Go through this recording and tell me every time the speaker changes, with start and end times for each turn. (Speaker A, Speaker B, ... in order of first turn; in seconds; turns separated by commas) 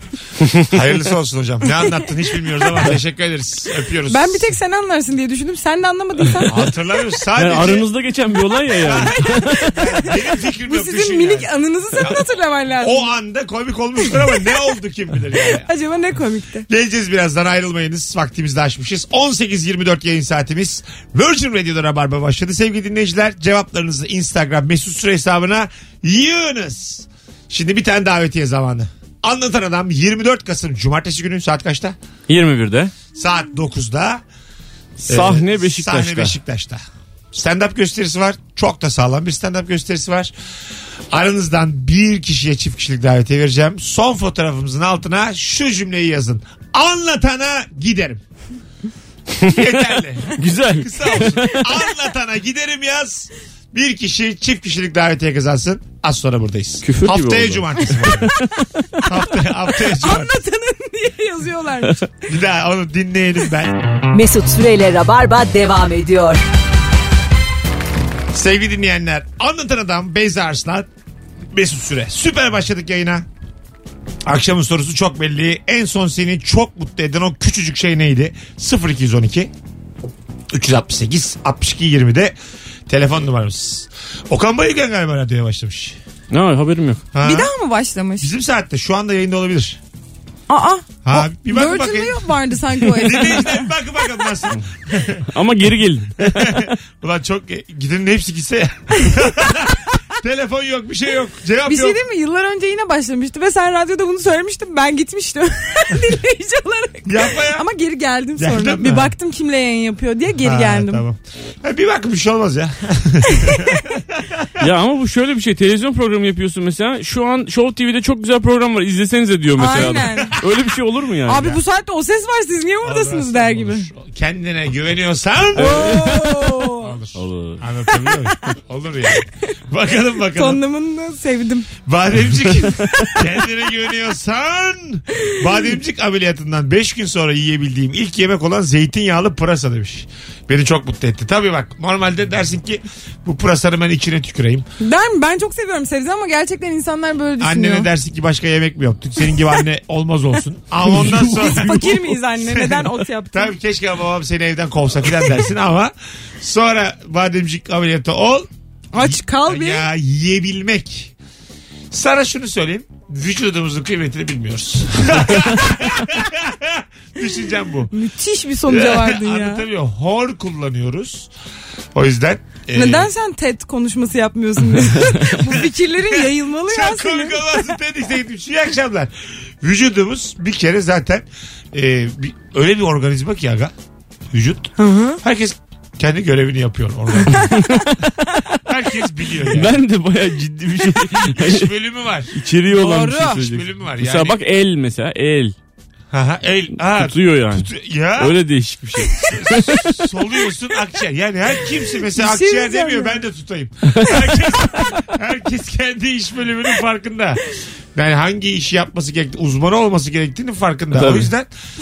Speaker A: 0.7-4.5, Speaker B: 4.1-6.5, Speaker A: 6.5-7.9, Speaker C: 7.4-9.7, Speaker A: 8.8-12.2, Speaker B: 10.7-13.1, Speaker A: 12.8-15.7, Speaker B: 15.7-16.7, Speaker A: 16.7-32.0, Speaker C: 32.3-32.9, Speaker A: 33.1-34.2, Speaker C: 35.0-36.4, Speaker A: 35.1-40.3, Speaker A: 41.1-48.2, Speaker A: 49.4-58.3, Speaker C: 50.4-51.6, Speaker C: 56.8-58.4, Speaker A: 59.0-60.4, Speaker B: 59.7-62.1, Speaker A: 62.3-63.8, Speaker D: 64.1-66.4, Speaker A: 68.3-70.9, Speaker A: 71.5-73.3, Speaker A: 74.2-79.5, Speaker A: 80.5-82.3, Speaker A: 82.9-86.0, Speaker C: 86.3-87.0, Speaker A: 87.1-87.5, Speaker B: 87.2-88.3, Speaker A: 88.2-89.8, Speaker B: 90.5-93.7, Speaker A: 91.0-92.3, Speaker A: 92.9-95.3, Speaker C: 95.3-96.7, Speaker A: 96.2-102.0, Speaker B: 99.0-99.5, Speaker B: 101.7-111.0, Speaker A: 107.1-107.7, Speaker A: 108.4-109.1, Speaker A: 110.4-114.4, Speaker C: 114.6-121.6, Speaker B: 119.6-120.4, Speaker B: 121.3-123.9, Speaker A: 122.8-126.0, Speaker B: 125.6-126.9, Speaker C: 125.7-126.3, Speaker A: 126.8-130.6, Speaker C: 127.2-127.6, Speaker B: 130.3-131.7, Speaker A: 131.9-144.7, Speaker B: 144.8-147.9, Speaker A: 147.4-161.1, Speaker C: 151.0-151.2, Speaker B: 151.0-153.5, Speaker B: 158.9-159.9, Speaker A: 161.9-167.9, Speaker B: 167.9-169.7, Speaker A: 168.7-171.3, Speaker A: 171.9-173.1, Speaker B: 172.7-177.4, Speaker A: 176.1-183.7, Speaker A: 184.3-187.6, Speaker B: 184.8-185.2, Speaker C: 187.5-188.1, Speaker A: 188.7-189.8, Speaker C: 189.4-191.7, Speaker A: 191.1-192.3, Speaker C: 192.3-195.6, Speaker B: 192.7-193.4, Speaker A: 193.2-194.4, Speaker A: 196.1-198.4, Speaker C: 197.0-200.0, Speaker A: 199.2-207.4, Speaker B: 202.2-203.2, Speaker A: 207.9-211.5, Speaker C: 210.9-211.3